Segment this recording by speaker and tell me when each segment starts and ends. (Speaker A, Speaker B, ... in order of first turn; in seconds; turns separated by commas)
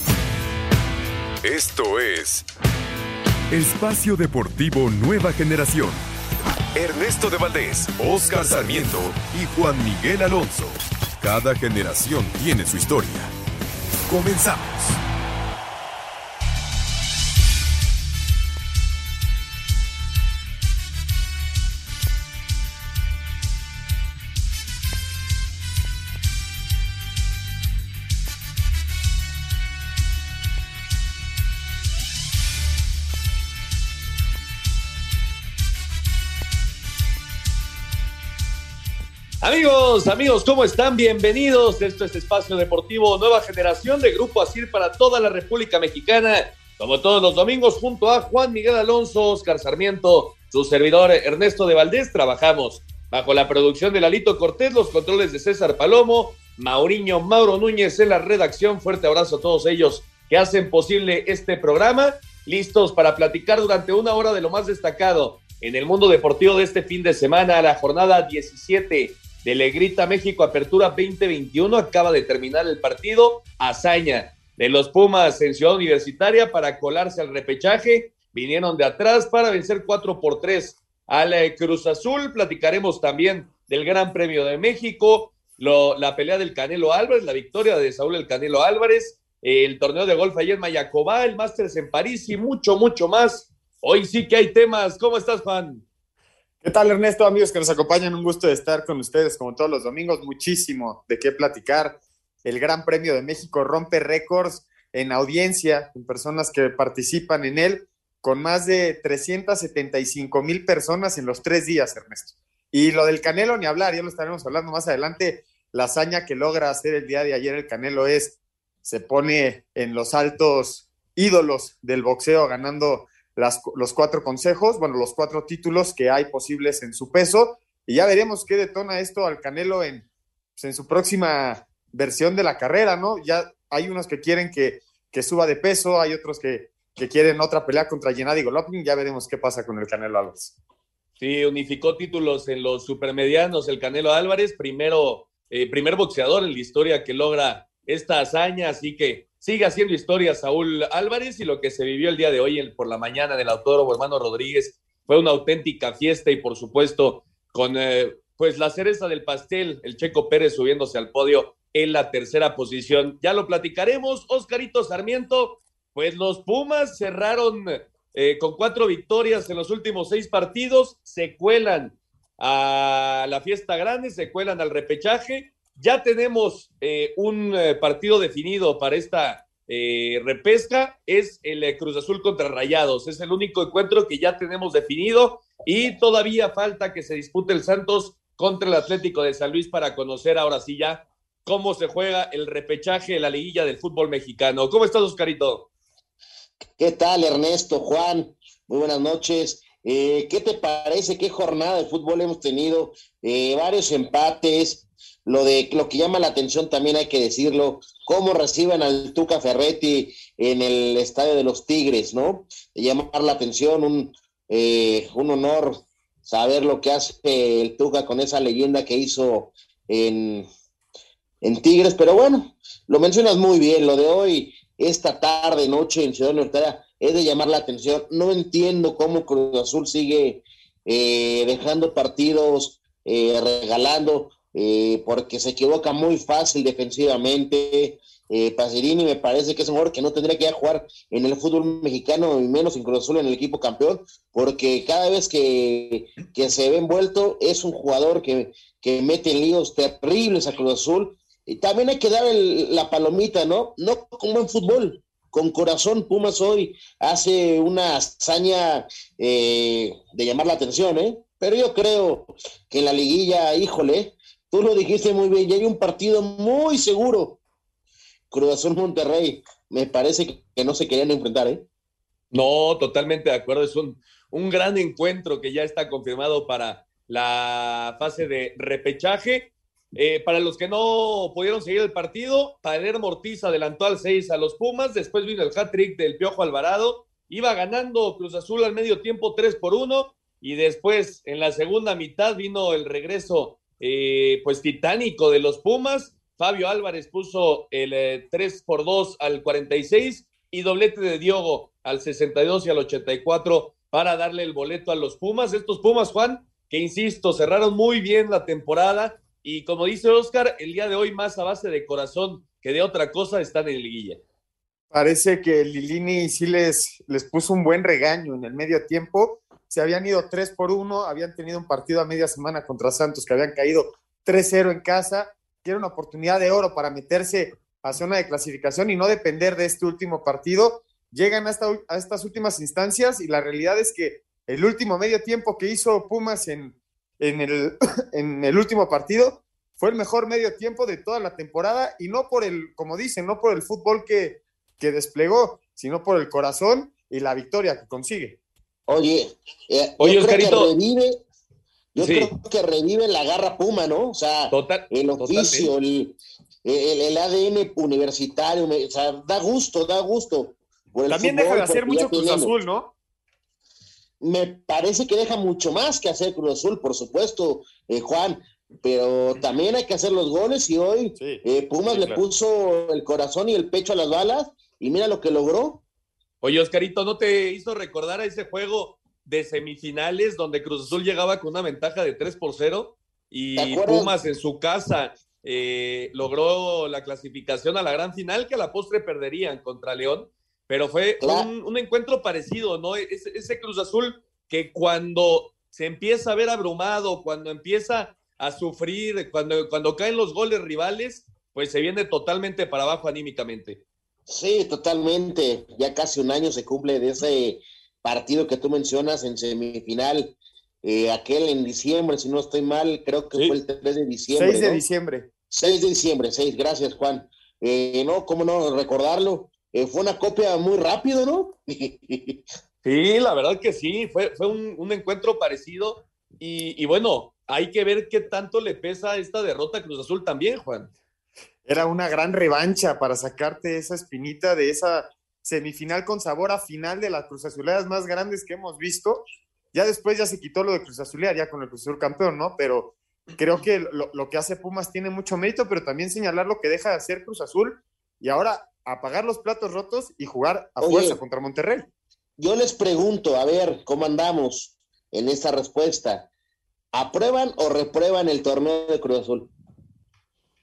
Speaker A: 1.4-2.4, Speaker A: 3.5-6.0, Speaker A: 6.7-13.3, Speaker A: 14.1-15.0, Speaker B: 39.4-95.8, Speaker C: 96.6-130.0, Speaker C: 130.6-140.5, Speaker B: 141.2-195.6, Speaker D: 196.8-220.5, Speaker D: 221.4-267.3, Speaker D: 268.3-271.6, Speaker B: 272.3-314.2, Speaker C: 314.9-348.3, Speaker D: 348.9-351.2, Speaker B: 350.0-350.7, Speaker D: 351.9-356.1, Speaker B: 352.0-352.3, Speaker B: 354.5-355.7, Speaker D: 356.6-362.5, Speaker C: 361.1-362.9, Speaker D: 364.2-375.8, Speaker C: 371.2-372.2, Speaker B: 376.4-403.8, Speaker D: 383.6-384.1, Speaker D: 391.2-391.5, Speaker D: 404.3-410.3, Speaker D: 410.8-414.8, Speaker C: 414.3-415.3, Speaker D: 415.5-422.4, Speaker B: 422.8-430.9, Speaker C: 431.6-439.2, Speaker C: 439.7-451.9, Speaker D: 450.8-451.2, Speaker D: 452.4-456.2, Speaker D: 456.9-459.5